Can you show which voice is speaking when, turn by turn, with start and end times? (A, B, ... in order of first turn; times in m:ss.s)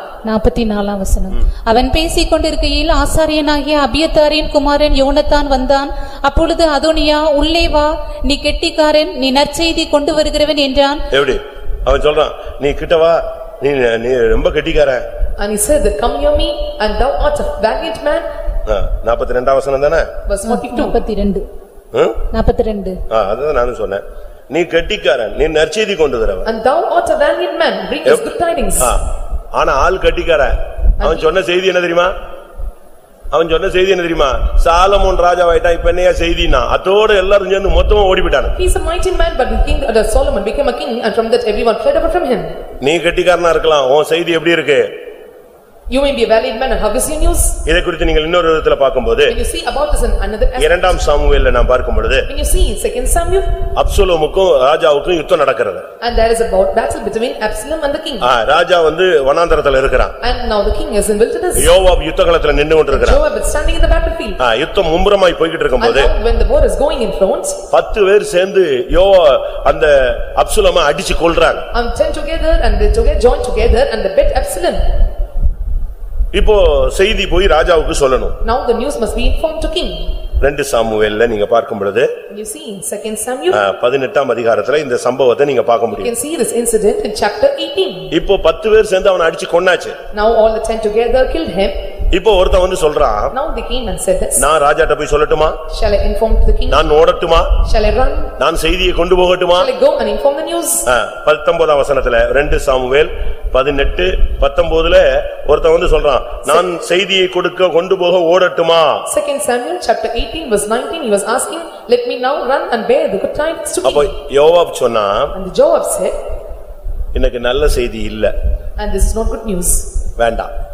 0:00.2-0:11.0 A
0:11.1-0:15.0 B
0:15.4-0:18.3 C
0:18.7-0:20.1 B
0:20.3-0:21.0 C
0:20.4-0:21.5 A
0:21.9-0:22.2 B
0:22.3-0:23.0 A
0:23.1-0:26.5 B
0:26.4-0:29.0 C
0:29.5-0:32.1 B
0:31.0-0:31.3 C
0:33.3-0:38.6 B
0:38.6-0:42.5 C
0:42.8-0:44.9 B
0:45.9-0:47.6 C
0:47.6-0:49.3 B
0:49.3-0:50.9 C
0:50.6-0:52.3 B
0:52.3-0:53.6 C
0:53.8-0:55.8 B
0:56.0-0:58.3 C
0:58.2-1:00.1 B
1:00.2-1:01.7 C
1:01.6-1:03.2 B
1:02.9-1:04.4 C
1:04.4-1:06.1 B
1:05.8-1:07.6 C
1:07.7-1:11.7 B
1:11.7-1:14.9 C
1:16.3-1:18.4 B
1:18.4-1:20.1 C
1:20.4-1:22.1 B
1:22.3-1:23.6 C
1:23.5-1:26.1 B
1:26.0-1:28.1 C
1:28.1-1:30.0 B
1:30.1-1:31.8 C
1:32.1-1:33.3 B
1:33.3-1:34.4 C
1:34.4-1:35.6 B
1:35.7-1:36.8 C
1:36.7-1:37.6 B
1:37.6-1:38.3 C
1:38.4-1:39.7 B
1:39.6-1:40.9 C
1:40.9-1:49.0 B
1:49.1-1:54.1 C
1:53.8-1:55.3 B
1:55.3-1:56.2 C
1:57.1-1:58.3 B
1:58.8-1:59.9 C
2:00.2-2:00.5 B